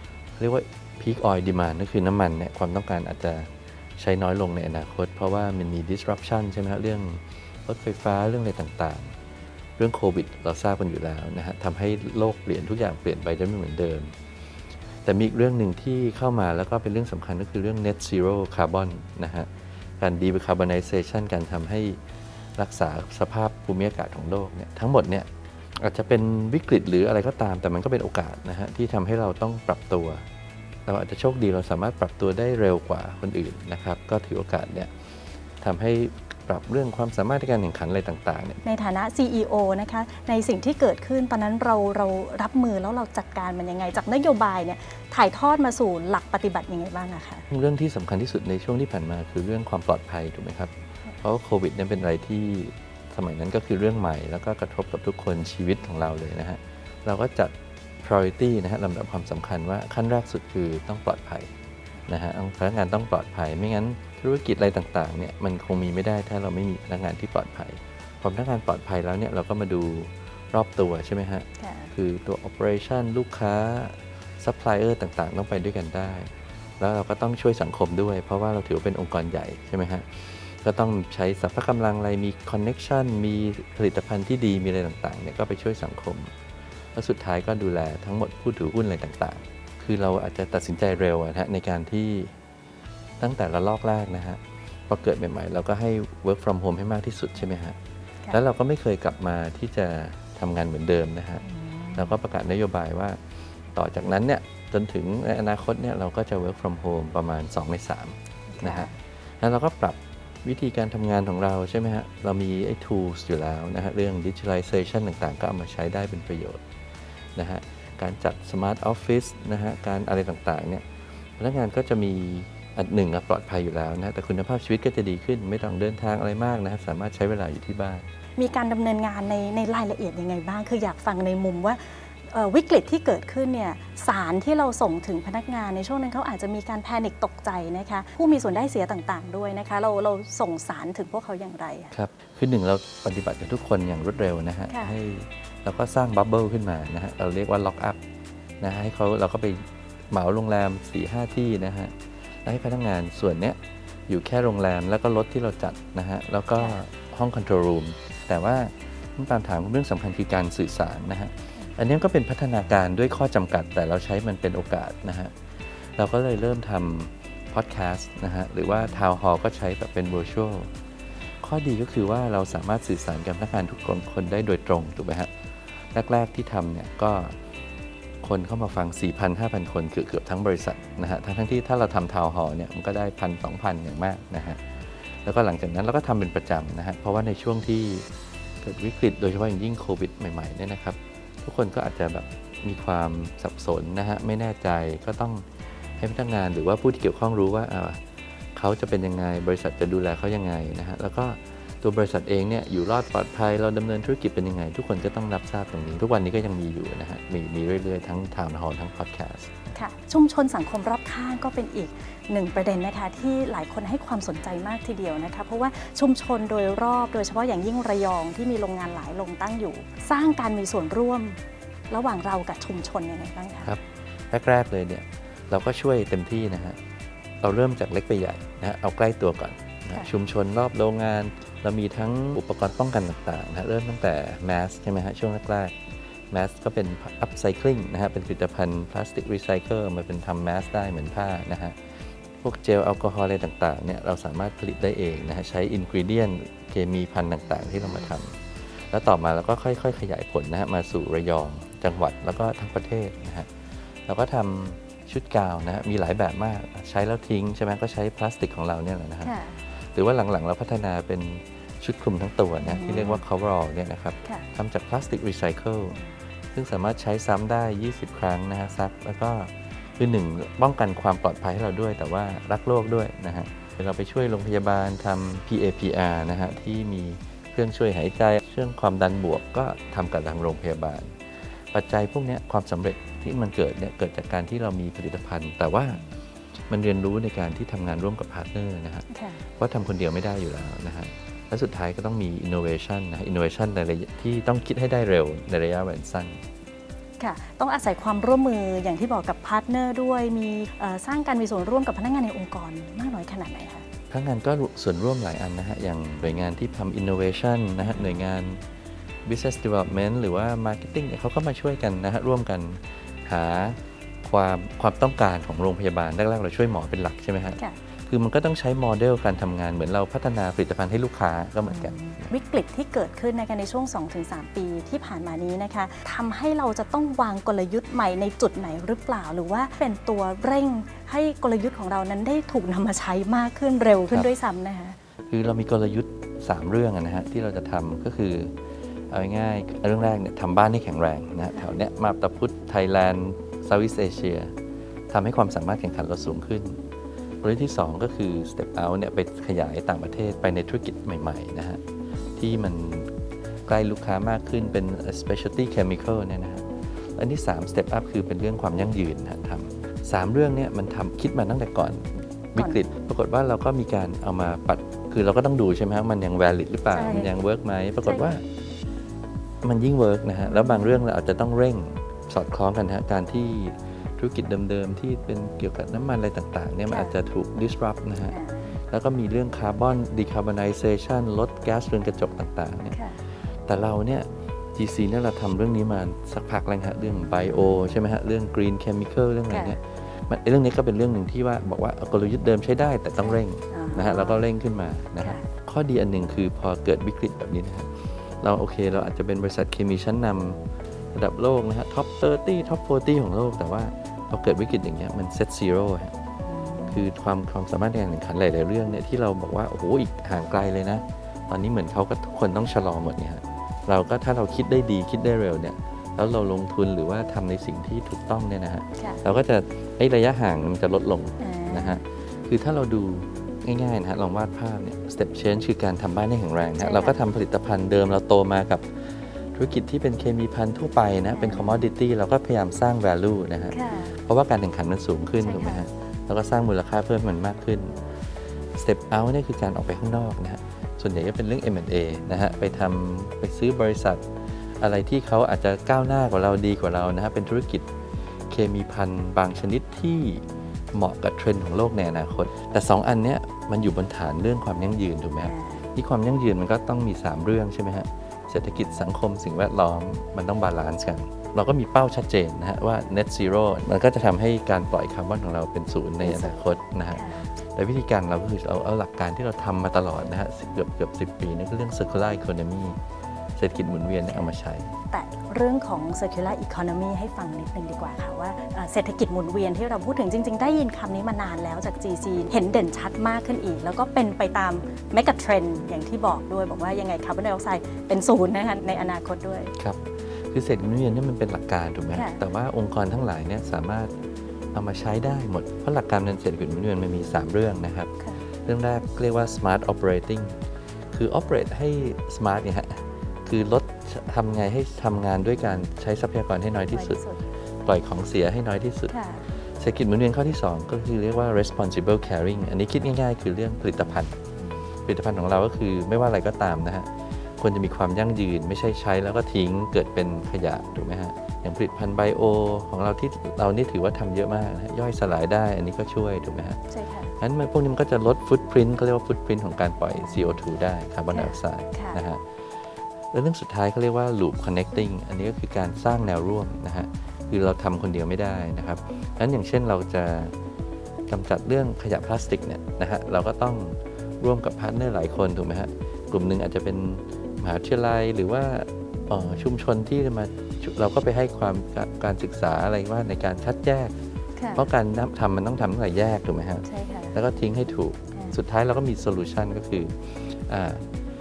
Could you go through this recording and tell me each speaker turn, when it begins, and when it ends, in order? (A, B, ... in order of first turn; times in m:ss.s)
0:00.4-0:09.1 A
0:09.8-0:14.1 A
0:15.0-0:19.5 A
0:20.0-0:22.0 A
0:22.6-0:30.2 A
0:30.9-0:34.9 A
0:35.6-0:38.6 A
0:38.6-0:47.4 B
0:47.5-0:50.7 A
0:51.2-1:01.5 A
1:02.1-1:26.3 A
1:11.6-1:11.9 B
1:26.9-1:32.3 A
1:33.2-1:37.8 A
1:38.3-1:41.4 A
1:41.5-1:42.2 B
1:42.0-1:43.2 A
1:43.7-1:48.9 A
1:48.5-1:48.9 B
1:49.4-1:56.6 A
1:57.4-2:00.8 A
2:01.4-2:08.1 A
2:08.4-2:21.9 B
2:21.9-2:28.0 A
2:24.7-2:25.0 B
2:28.6-2:31.9 A
2:32.4-2:33.6 A
2:34.1-2:45.3 A
2:45.9-2:50.7 A
2:51.4-2:55.3 A
2:55.9-2:57.4 A
2:58.2-3:04.6 A
3:05.2-3:08.1 A
3:08.6-3:15.4 A
3:16.0-3:18.0 A
3:18.6-3:29.5 A
3:29.7-3:41.4 B
3:41.9-3:43.7 B
3:43.6-3:46.8 A
3:47.4-3:55.7 A
3:56.3-4:01.8 A
4:02.4-4:13.5 A
4:14.1-4:26.0 A
4:19.2-4:19.6 B
4:22.6-4:23.2 B
4:26.5-4:41.1 A
4:41.7-4:46.0 A
4:46.7-4:49.0 A
4:49.1-4:49.4 B
4:49.6-4:56.4 A
4:57.2-5:03.8 B
5:04.1-5:08.6 A
5:07.8-5:08.1 B
5:09.2-5:22.3 A
5:21.6-5:35.0 B
5:35.3-5:38.5 A
5:39.1-5:44.5 A
5:45.1-5:46.8 A
5:47.4-5:51.8 A
5:52.4-5:53.1 A
5:53.7-6:08.4 A
6:06.9-6:07.3 B
6:08.0-6:08.3 B
6:09.6-6:18.4 A
6:16.9-6:17.1 B
6:18.3-6:18.8 B
6:18.9-6:23.0 A
6:22.9-6:23.2 B
6:23.7-6:37.9 A
6:29.5-6:29.8 B
6:33.2-6:34.4 B
6:35.2-6:35.5 B
6:38.4-6:40.6 A
6:41.1-6:46.1 A
6:46.5-6:47.1 B
6:46.9-7:18.0 A
6:59.0-6:59.2 B
7:01.4-7:02.0 B
7:06.8-7:07.2 B
7:11.4-7:11.9 B
7:13.7-7:14.2 B
7:15.4-7:15.8 B
7:18.8-7:24.2 A
7:24.8-7:27.9 A
7:28.5-7:53.0 A
7:35.4-7:35.9 B
7:46.2-7:47.5 B
7:53.6-7:54.9 A
7:55.1-8:09.7 B
8:09.8-8:14.1 A
8:12.1-8:12.4 B
8:14.7-8:18.1 A
8:18.7-8:20.6 A
8:21.1-8:27.2 A
8:26.9-8:27.4 B
8:27.8-8:29.1 A
8:29.1-8:29.5 B
8:29.8-8:34.4 A
8:34.6-8:34.8 B
8:35.1-8:46.8 A
8:46.9-8:47.3 B
8:47.4-8:52.6 A
8:51.3-8:52.2 B
8:53.3-9:00.5 A
9:01.3-9:14.1 A
9:14.6-9:14.9 B
9:14.8-9:21.0 A
9:16.8-9:17.4 B